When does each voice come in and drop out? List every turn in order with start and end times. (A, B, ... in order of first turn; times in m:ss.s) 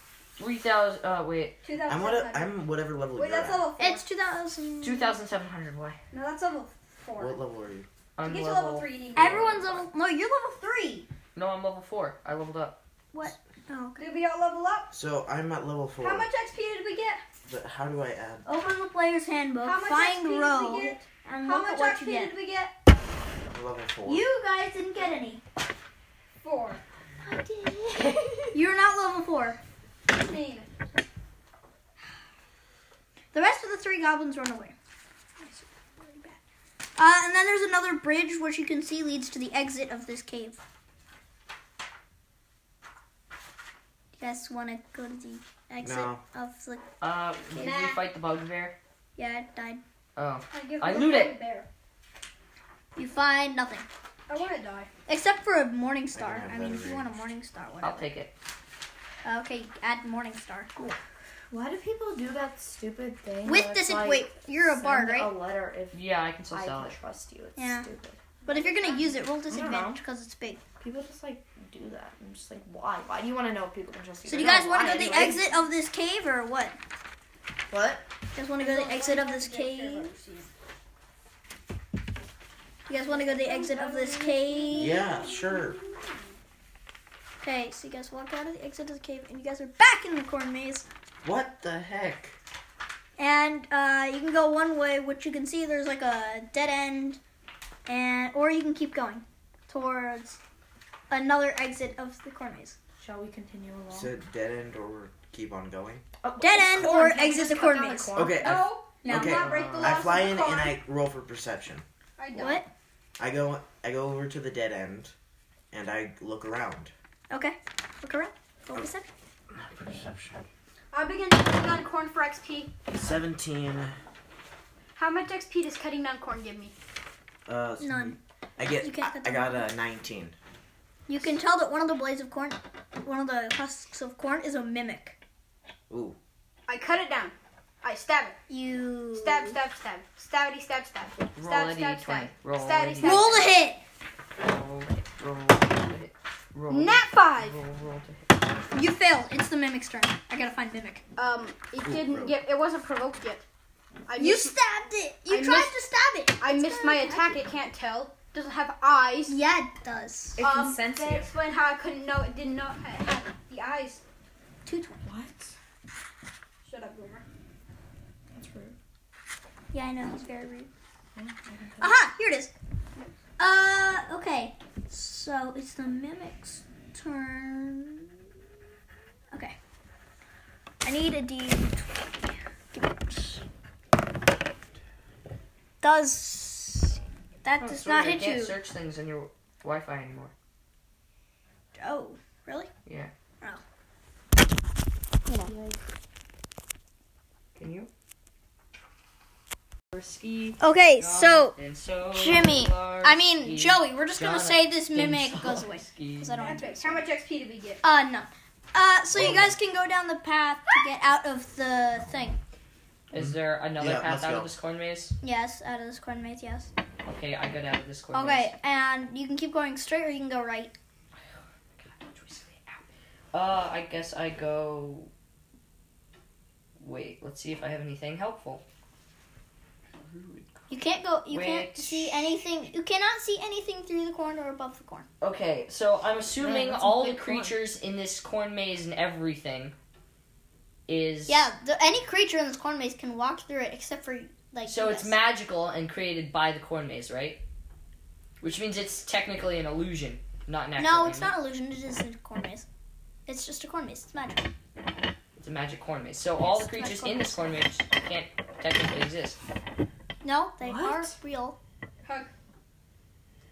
0:00.4-0:01.6 A
0:01.6-0:02.6 B
0:01.8-0:03.8 C
0:03.1-0:04.0 B
0:03.8-0:05.1 D
0:04.8-0:06.0 A
0:06.1-0:07.4 B
0:07.2-0:07.9 C
0:08.2-0:09.8 A
0:08.2-0:09.5 B
0:09.2-0:11.1 D
0:11.3-0:12.8 A
0:13.1-0:14.1 D
0:14.0-0:14.9 B
0:14.9-0:16.3 C
0:16.0-0:17.2 B
0:17.5-0:18.5 C
0:18.4-0:22.3 D
0:19.6-0:22.7 B
0:23.5-0:24.2 C
0:24.0-0:25.4 D
0:26.4-0:26.8 B
0:27.2-0:28.5 A
0:28.5-0:29.6 D
0:30.1-0:30.7 B
0:33.3-0:34.7 D
0:36.0-0:36.3 D
0:37.0-0:40.6 D
0:44.2-0:46.8 D
0:45.8-0:46.2 C
0:47.0-0:48.8 A
0:47.6-0:48.0 B
0:49.2-0:49.8 D
0:50.2-0:51.4 A
0:50.5-0:51.7 B
0:53.0-0:53.8 D
0:54.3-0:54.9 B
0:55.1-0:58.1 D
0:56.1-0:57.1 C
0:57.8-0:58.3 A
0:59.2-1:00.7 D
1:01.5-1:06.0 E
1:03.4-1:05.3 D
1:05.9-1:07.0 A
1:06.5-1:08.2 E
1:07.6-1:07.9 D
1:08.4-1:09.2 B
1:08.4-1:10.6 D
1:09.5-1:10.0 E
1:10.8-1:15.4 E
1:14.2-1:16.8 D
1:17.7-1:18.0 E
1:18.3-1:20.1 D
1:18.6-1:20.5 B
1:22.9-1:25.1 D
1:23.1-1:26.4 B
1:23.4-1:24.8 E
1:24.7-1:25.8 C
1:27.4-1:30.9 D
1:31.2-1:32.3 C
1:33.2-1:37.2 D
1:37.9-1:40.4 D
1:41.1-1:42.8 D
1:43.0-1:44.1 E
1:43.9-1:46.0 C
1:46.4-1:48.3 D
1:46.4-1:48.7 E
1:48.1-1:51.8 C
1:48.4-1:50.8 B
1:49.0-1:49.5 D
1:49.3-1:50.0 A
1:52.2-1:52.6 B
1:52.3-1:52.7 D
1:53.2-1:55.1 C
1:55.7-1:56.9 C
1:57.3-1:59.1 D
1:59.5-2:00.4 C
2:00.9-2:02.7 B
2:02.9-2:03.9 C
2:05.0-2:06.7 B
2:07.5-2:10.3 C
2:07.8-2:08.2 D
2:08.8-2:09.6 D
2:11.1-2:15.2 D
2:15.9-2:16.2 C
2:16.7-2:18.4 B
2:18.5-2:19.6 D
2:19.1-2:23.5 B
2:21.4-2:23.5 A
2:23.0-2:23.8 D
2:24.4-2:28.2 A
2:26.7-2:27.6 B
2:28.7-2:31.0 D
2:31.2-2:33.4 B
2:31.8-2:32.4 C
2:34.1-2:34.5 B
2:34.2-2:37.4 D
2:35.3-2:35.8 B
2:36.4-2:39.4 B
2:39.3-2:40.4 D
2:40.4-2:41.3 E
2:40.4-2:44.0 B
2:44.6-2:45.0 D
2:45.0-2:45.5 E
2:46.6-2:47.2 B
2:48.3-2:48.8 E
2:49.7-2:50.7 D
2:51.2-2:51.9 E
2:51.8-2:52.5 D
2:53.4-2:58.2 D
3:00.8-3:03.4 D
3:05.8-3:08.6 D
3:07.6-3:10.3 A
3:11.7-3:12.7 D
3:12.8-3:13.1 A
3:15.2-3:15.5 D
3:15.5-3:15.8 E
3:17.6-3:17.9 A
3:19.9-3:26.4 A
3:20.6-3:21.5 D
3:22.1-3:27.0 D
3:26.3-3:27.8 B
3:27.8-3:32.4 D
3:29.1-3:29.5 C
3:33.1-3:35.1 A
3:33.1-3:34.5 C
3:35.2-3:36.7 D
3:37.0-3:38.5 A
3:38.1-3:40.7 D
3:41.7-3:45.1 A
3:46.8-3:48.6 A
3:50.0-3:50.6 A
3:50.7-3:55.1 D
3:51.3-3:52.2 A
3:55.2-3:59.7 A
3:56.4-3:57.6 E
4:00.9-4:01.5 A
4:01.3-4:05.2 D
4:04.6-4:07.4 A
4:08.4-4:11.3 A
4:10.8-4:12.6 D
4:13.3-4:14.5 D
4:15.4-4:19.4 A
4:16.4-4:17.4 D
4:20.2-4:21.6 D
4:20.6-4:21.1 E
4:22.0-4:22.3 B